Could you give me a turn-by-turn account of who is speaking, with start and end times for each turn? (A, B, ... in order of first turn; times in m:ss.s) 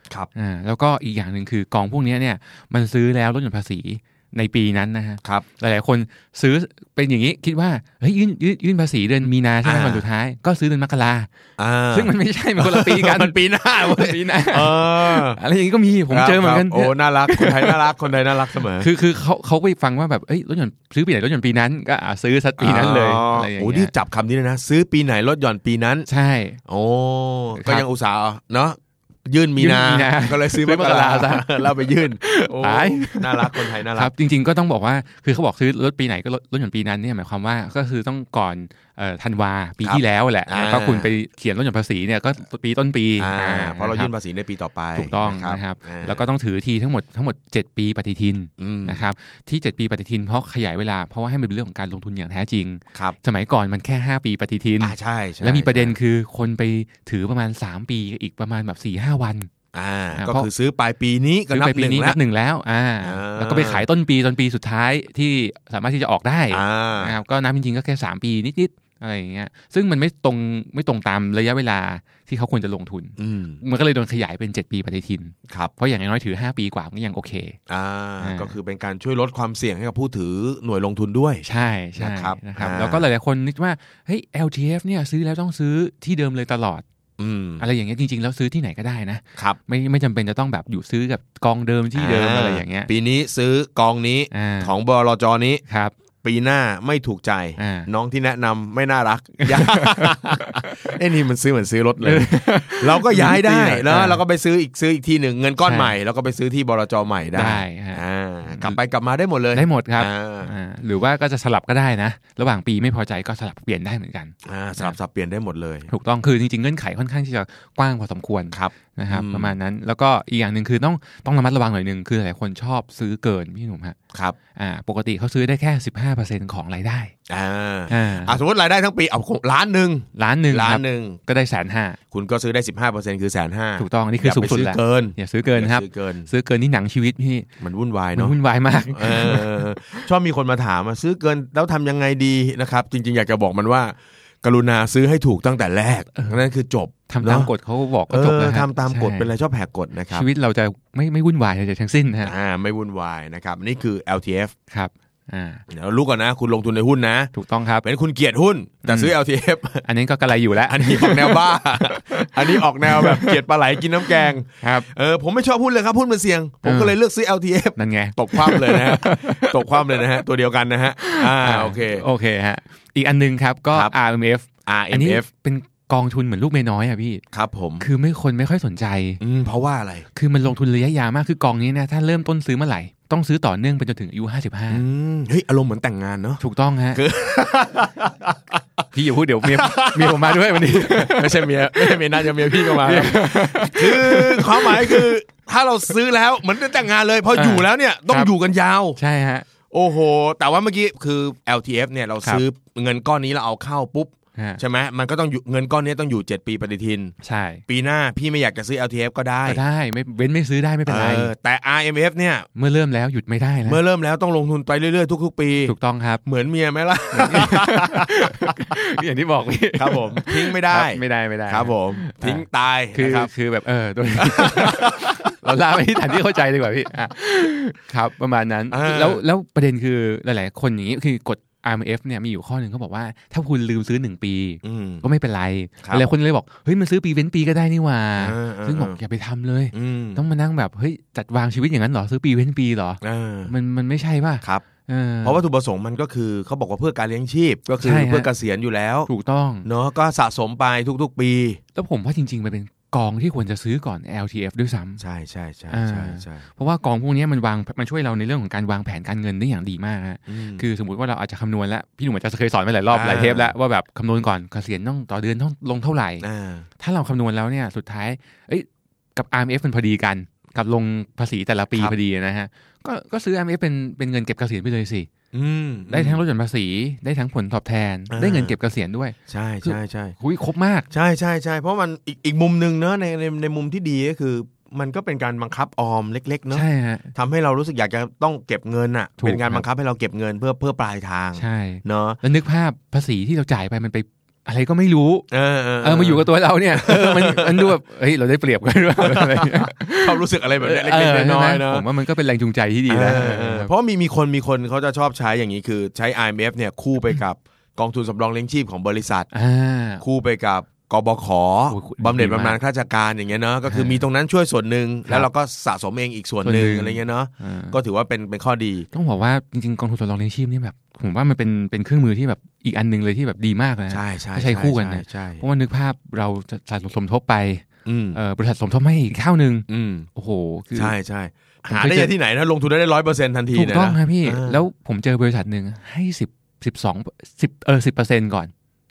0:00.3-0:11.3 A
0:09.6-0:10.0 B
0:11.6-0:15.4 B
0:11.9-0:17.8 A
0:16.1-0:18.9 B
0:18.8-0:23.9 A
0:22.6-0:26.1 B
0:26.1-0:26.6 A
0:26.7-0:34.1 B
0:27.6-0:27.8 A
0:29.6-0:44.1 A
0:39.8-0:41.1 B
0:43.2-0:46.2 B
0:45.0-0:59.5 A
0:48.6-0:49.0 B
0:54.8-0:55.9 B
0:59.7-1:02.2 B
1:00.1-1:00.5 A
1:01.5-1:17.6 A
1:03.0-1:03.8 B
1:06.5-1:07.2 B
1:13.2-1:13.6 B
1:17.7-1:21.4 B
1:18.2-1:18.5 A
1:21.4-1:26.8 A
1:22.0-1:23.0 B
1:27.2-1:27.6 B
1:27.6-1:32.9 A
1:31.9-1:35.6 B
1:34.3-1:34.7 A
1:35.7-1:35.9 A
1:36.2-1:50.5 B
1:37.6-1:37.9 A
1:39.4-1:40.7 A
1:42.0-1:44.2 A
1:45.6-1:45.9 A
1:47.3-1:48.0 A
1:49.5-1:55.0 A
1:54.4-1:55.9 B
1:55.9-2:04.0 A
1:58.5-1:59.5 B
2:04.6-2:07.1 A
2:07.3-2:11.2 B
2:07.9-2:08.4 A
2:10.2-2:12.0 A
2:12.1-2:16.3 B
2:13.8-2:17.5 A
2:17.6-2:18.3 B
2:18.1-2:20.0 A
2:18.9-2:27.5 B
2:27.1-2:29.3 A
2:28.1-2:30.2 B
2:30.1-2:32.3 A
2:32.2-2:34.5 B
2:34.7-2:35.6 A
2:35.7-2:37.3 B
2:37.3-2:37.8 A
2:37.8-2:39.8 B
2:38.8-2:39.1 A
2:39.8-2:43.4 A
2:40.7-2:52.0 B
2:44.1-2:44.9 A
2:46.6-2:47.0 A
2:47.8-2:50.0 A
2:51.0-2:57.2 A
2:54.6-2:55.2 B
2:57.3-2:57.8 B
2:57.8-2:59.2 A
2:59.2-3:00.1 B
3:00.1-3:04.8 A
3:04.7-3:06.4 B
3:06.4-3:07.0 A
3:06.9-3:08.6 B
3:08.9-3:15.1 A
3:09.4-3:19.0 B
3:17.3-3:18.3 A
3:19.0-3:19.4 A
3:19.7-3:27.1 B
3:27.2-3:27.6 A
3:27.7-3:29.6 B
3:29.4-3:31.3 A
3:30.9-3:32.5 B
3:32.6-3:33.8 A
3:33.6-3:35.7 B
3:35.6-3:36.2 A
3:36.2-3:39.0 B
3:37.1-4:05.4 A
3:39.8-3:43.3 B
3:44.2-3:45.3 B
3:48.7-3:49.2 B
3:54.6-3:55.0 B
3:58.2-3:59.0 B
3:59.7-4:00.2 B
4:03.0-4:03.5 B
4:05.2-4:09.1 B
4:07.8-4:08.3 A
4:09.1-4:09.7 A
4:09.6-4:11.6 B
4:11.7-4:15.0 A
4:15.0-4:16.4 B
4:15.7-4:26.2 A
4:20.3-4:20.6 B
4:22.9-4:23.5 B
4:26.2-4:26.7 B
4:26.8-4:35.1 A
4:35.3-4:36.2 B
4:35.9-4:40.9 A
4:38.1-4:38.5 B
4:39.3-4:40.2 B
4:40.9-4:52.2 B
4:46.5-4:47.1 A
4:49.2-4:49.6 A
4:51.4-4:55.3 A
4:55.3-4:57.7 B
4:55.8-5:03.7 A
4:59.0-5:01.8 B
5:02.9-5:09.3 B
5:09.3-5:10.0 A
5:10.0-5:18.9 B
5:11.7-5:12.6 A
5:13.7-5:14.0 A
5:16.4-5:17.8 A
5:18.9-5:30.9 A
5:23.9-5:25.4 B
5:27.8-5:28.2 B
5:29.7-5:30.1 B
5:30.7-5:34.6 B
5:31.7-5:32.1 A
5:33.5-5:38.5 A